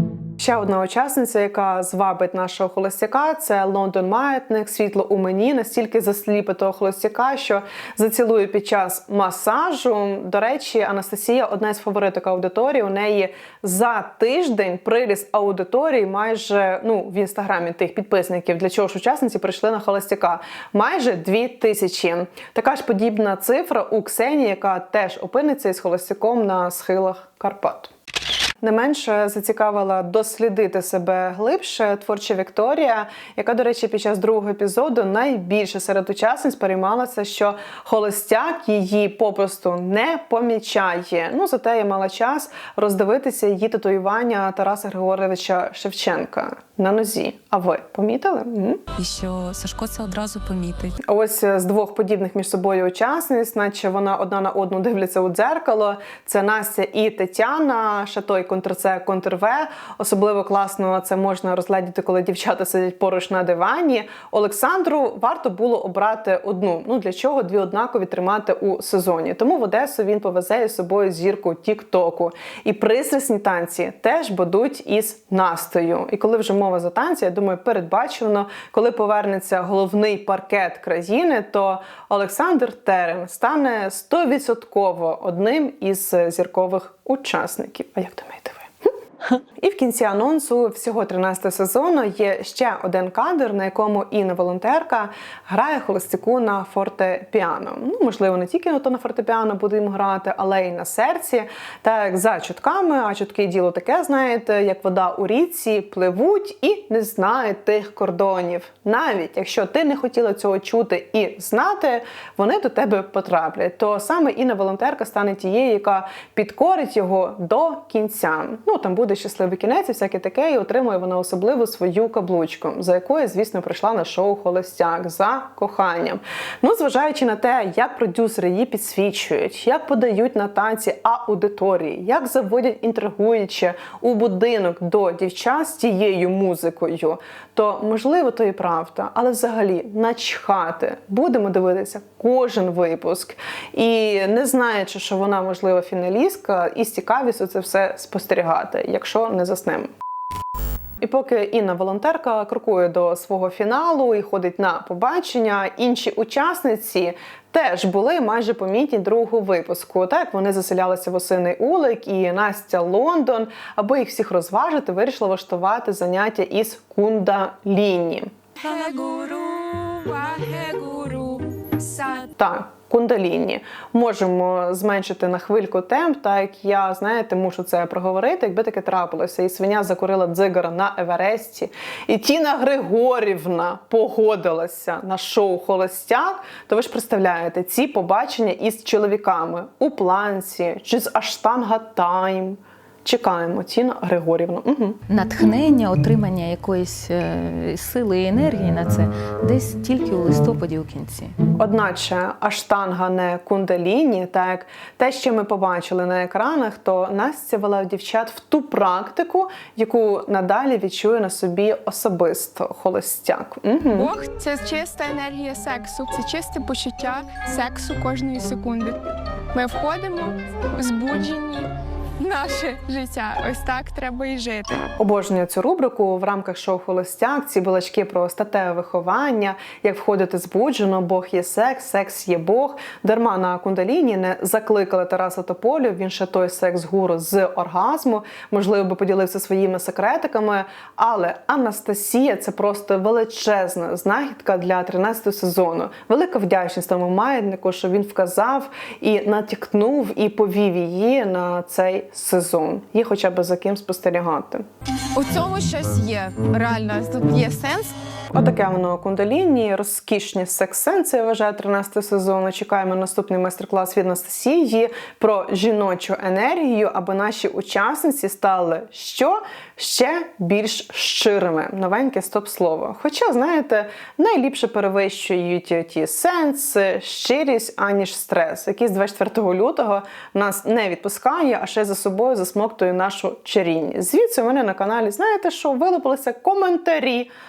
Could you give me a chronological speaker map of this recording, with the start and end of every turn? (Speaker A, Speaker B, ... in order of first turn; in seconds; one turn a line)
Speaker A: 0.4-27.9
Speaker A: 28.6-48.8
Speaker B: 49.0-50.9
Speaker A: 51.0-88.7
Speaker A: 89.6-149.9
Speaker A: 151.0-168.3
Speaker C: 168.6-172.3
Speaker A: 172.4-195.0
Speaker B: 195.1-201.4
Speaker A: 201.6-214.1
Speaker C: 213.9-219.0
Speaker C: 219.5-221.7
Speaker C: 222.2-224.9
Speaker A: 225.0-254.7
Speaker C: 255.2-257.9
Speaker A: 258.3-287.3